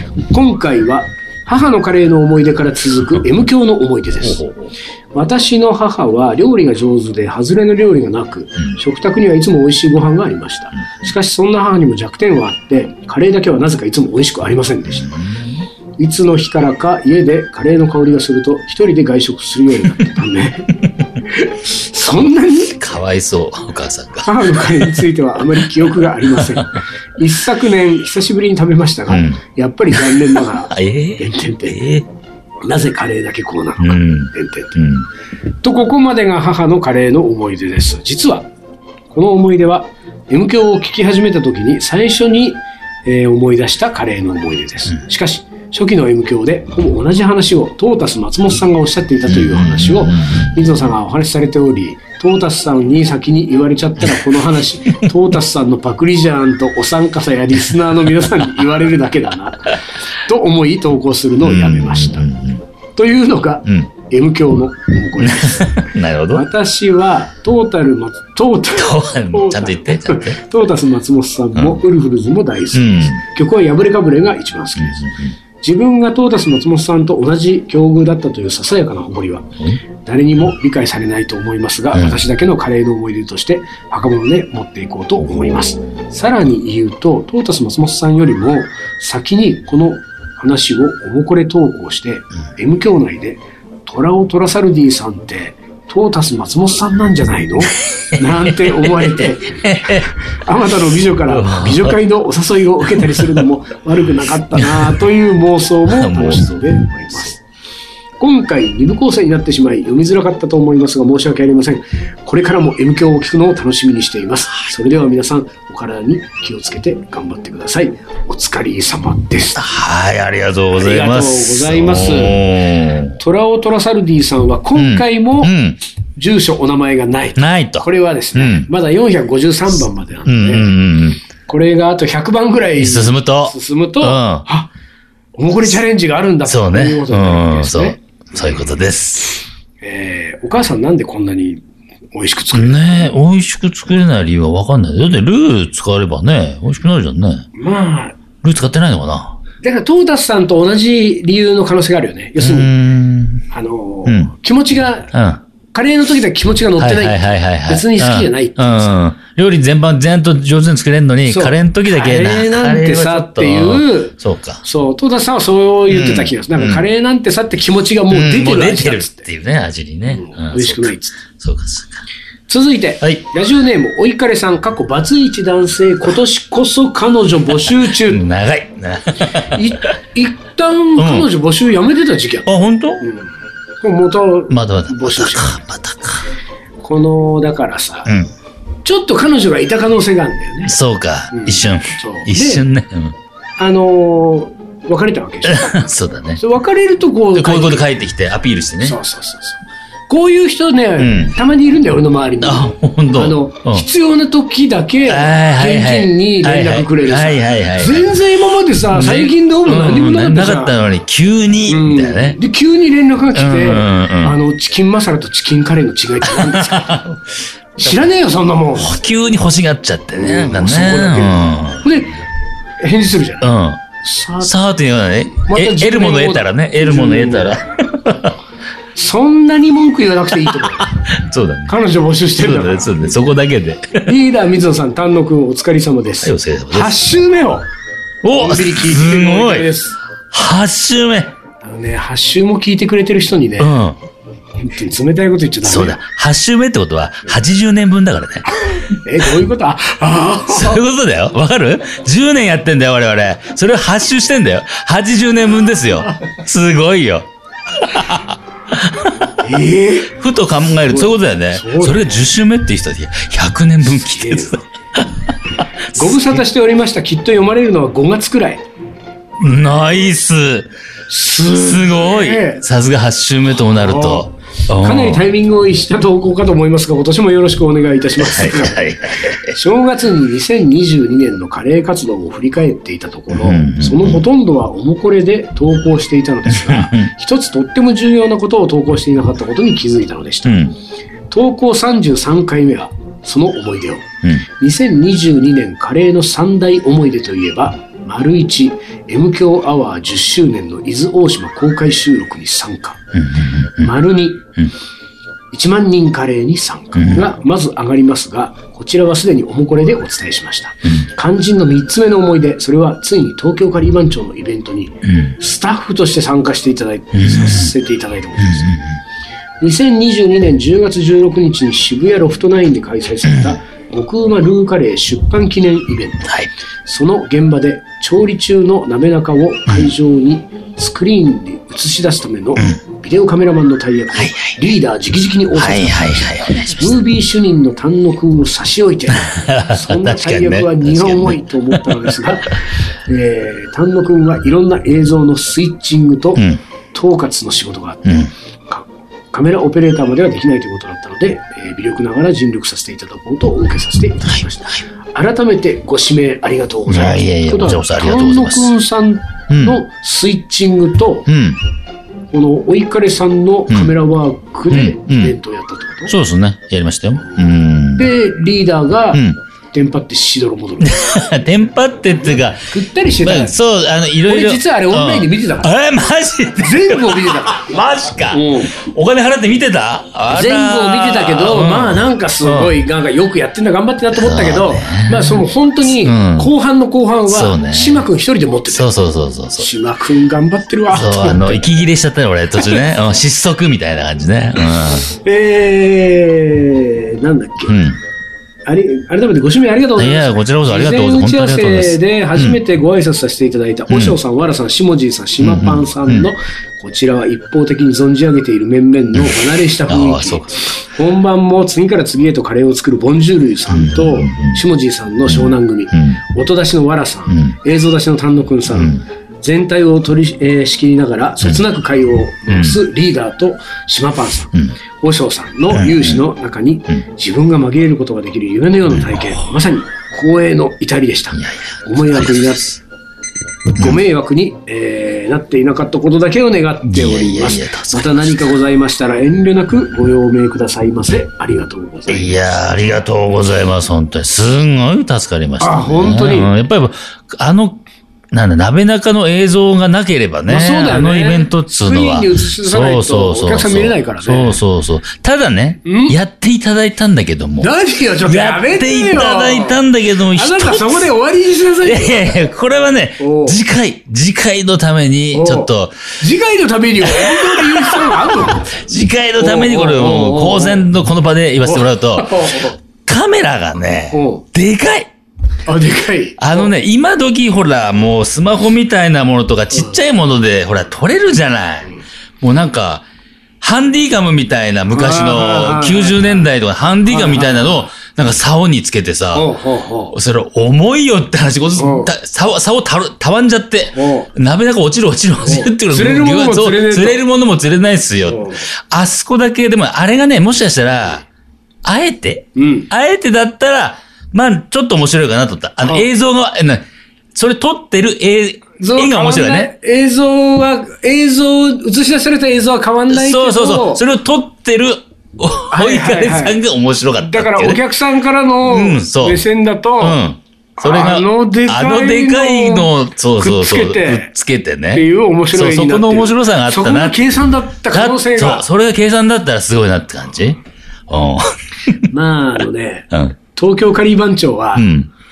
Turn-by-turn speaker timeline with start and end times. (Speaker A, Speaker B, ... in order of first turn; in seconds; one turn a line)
Speaker A: 0.3-4.5
Speaker B: 4.2-4.7
Speaker A: 5.1-15.2
Speaker B: 15.0-15.6
Speaker A: 16.0-22.8
Speaker B: 22.6-25.0
Speaker A: 24.2-32.0
Speaker B: 26.2-26.7
Speaker B: 29.1-29.4
Speaker B: 29.9-32.0
Speaker A: 32.6-34.8
Speaker B: 33.8-35.1
Speaker A: 35.6-38.5
Speaker A: 39.1-62.3
Speaker B: 49.3-50.6
Speaker B: 61.4-62.6
Speaker A: 63.0-79.5
Speaker B: 65.2-66.5
Speaker B: 68.8-70.4
Speaker B: 72.7-73.2
Speaker B: 74.8-75.3
Speaker A: 80.0-107.4
Speaker B: 81.9-82.2
Speaker B: 98.1-100.1
Speaker B: 101.3-102.0
Speaker B: 103.0-103.4
Speaker B: 104.5-105.0
Speaker B: 105.9-106.8
Speaker A: 108.2-119.7
Speaker B: 119.6-123.2
Speaker A: 120.8-122.4
Speaker A: 123.2-125.5
Speaker B: 124.8-125.8
Speaker A: 126.2-130.7
Speaker B: 127.4-128.7
Speaker B: 130.3-131.2
Speaker A: 131.5-134.7
Speaker B: 132.8-134.4
Speaker A: 135.4-138.0
Speaker B: 136.5-139.4
Speaker A: 139.8-141.6
Speaker A: 142.1-142.8
Speaker B: 142.5-147.5
Speaker A: 147.6-148.2
Speaker B: 148.4-149.4
Speaker A: 149.6-152.7
Speaker B: 152.4-153.4
Speaker A: 153.5-155.1
Speaker B: 155.1-155.4
Speaker A: 155.7-158.9
Speaker B: 156.8-164.6
Speaker A: 161.3-169.3
Speaker B: 165.9-166.8
Speaker B: 168.1-172.1
Speaker A: 170.1-171.2
Speaker A: 172.5-178.2
Speaker B: 177.6-179.8
Speaker A: 179.4-182.5
Speaker B: 181.0-181.3
Speaker B: 182.5-183.1
Speaker A: 183.0-183.3
Speaker A: 183.8-185.6
Speaker B: 184.5-186.3
Speaker A: 186.8-188.1
Speaker A: 188.8-190.8
Speaker B: 190.7-193.2
Speaker A: 191.3-192.7
Speaker A: 193.6-195.9
Speaker B: 195.5-196.4
Speaker A: 196.4-197.9
Speaker B: 197.3-199.0
Speaker A: 198.8-199.6
Speaker A: 200.1-210.7
Speaker B: 201.0-201.3
Speaker B: 202.4-203.9
Speaker B: 205.1-208.1
Speaker B: 208.9-212.4
Speaker A: 211.7-217.1
Speaker B: 213.3-214.4
Speaker B: 216.2-217.2
Speaker A: 217.8-219.0
Speaker B: 218.7-221.9
Speaker A: 220.1-222.2
Speaker A: 222.8-223.5
Speaker B: 223.4-223.8
Speaker A: 224.0-224.5
Speaker B: 224.4-228.4
Speaker A: 225.4-227.7
Speaker A: 229.0-231.0
Speaker B: 230.5-231.7
Speaker A: 231.7-233.2
Speaker B: 232.4-234.1
Speaker A: 234.1-237.7
Speaker B: 236.2-237.0
Speaker B: 238.2-239.7
Speaker A: 238.3-240.0
Speaker B: 240.3-241.3
Speaker A: 241.6-243.7
Speaker B: 243.6-244.0
Speaker A: 244.6-246.0
Speaker B: 245.6-248.5
Speaker A: 248.7-250.8
Speaker B: 250.5-259.3
Speaker A: 259.4-260.2
Speaker B: 260.2-266.3
Speaker A: 260.9-262.3
Speaker A: 264.1-264.6
Speaker A: 265.9-268.6
Speaker B: 269.4-270.7
Speaker A: 271.1-272.6
Speaker B: 271.5-275.2
Speaker A: 273.8-278.8
Speaker B: 278.2-279.6
Speaker A: 279.5-290.7
Speaker B: 283.3-284.3
Speaker B: 286.5-287.1
Speaker B: 290.4-290.7
Speaker A: 291.3-294.1
Speaker A: 294.6-303.0
Speaker B: 303.1-303.9
Speaker A: 303.8-304.5
Speaker A: 305.5-318.8
Speaker B: 306.9-307.3
Speaker B: 317.1-317.7
Speaker B: 318.4-318.9
Speaker A: 319.6-361.3
Speaker B: 323.3-323.6
Speaker B: 334.1-334.6
Speaker B: 335.6-337.1
Speaker B: 339.1-342.4
Speaker B: 348.1-348.3
Speaker B: 356.9-358.7
Speaker B: 359.5-359.8
Speaker B: 361.3-361.6
Speaker A: 362.3-366.1
Speaker B: 364.7-365.4
Speaker B: 366.1-368.1
Speaker A: 367.9-371.0
Speaker B: 369.1-369.4
Speaker B: 370.8-382.7
Speaker A: 372.7-373.6
Speaker A: 374.3-375.7
Speaker A: 376.6-377.7
Speaker A: 378.3-378.8
Speaker A: 380.3-388.9
Speaker B: 384.1-386.5
Speaker B: 387.3-388.1
Speaker B: 388.7-389.7
Speaker A: 389.6-391.7
Speaker B: 390.9-395.1
Speaker A: 394.8-397.8
Speaker B: 397.7-398.0
Speaker A: 398.7-432.8
Speaker B: 400.0-402.6
Speaker B: 403.9-404.2
Speaker B: 405.4-406.3
Speaker B: 409.2-410.6
Speaker B: 413.7-414.6
Speaker B: 415.3-416.2
Speaker B: 417.3-417.6
Speaker B: 418.7-419.0
Speaker B: 422.5-422.8
Speaker B: 425.7-426.2
Speaker B: 428.9-429.4
Speaker B: 431.4-432.8
Speaker A: 433.8-442.4
Speaker B: 436.9-438.5
Speaker B: 442.1-457.7
Speaker A: 445.6-446.5
Speaker A: 450.5-454.6
Speaker A: 455.9-456.2
Speaker A: 457.6-462.5
Speaker B: 458.2-461.1
Speaker B: 461.8-466.2
Speaker A: 463.2-463.6
Speaker A: 465.3-468.7
Speaker B: 467.0-475.1
Speaker A: 469.4-470.9
Speaker A: 471.6-472.8
Speaker A: 474.1-474.4
Speaker A: 475.7-476.8
Speaker B: 476.4-483.1
Speaker B: 483.6-489.5
Speaker A: 484.9-486.4
Speaker A: 487.1-487.8
Speaker A: 489.3-490.1
Speaker B: 490.1-501.3
Speaker A: 491.8-492.1
Speaker A: 493.9-494.3
Speaker A: 495.4-497.2
Speaker A: 498.3-498.7
Speaker B: 501.8-509.7
Speaker A: 502.6-502.9
Speaker A: 505.8-506.1
Speaker A: 508.8-514.0
Speaker B: 513.1-517.8
Speaker A: 515.7-516.6
Speaker A: 517.2-520.2
Speaker B: 518.6-519.4
Speaker B: 520.0-527.3
Speaker A: 520.8-524.3
Speaker A: 524.9-528.6
Speaker B: 527.9-532.0
Speaker A: 532.0-534.9
Speaker B: 534.8-535.1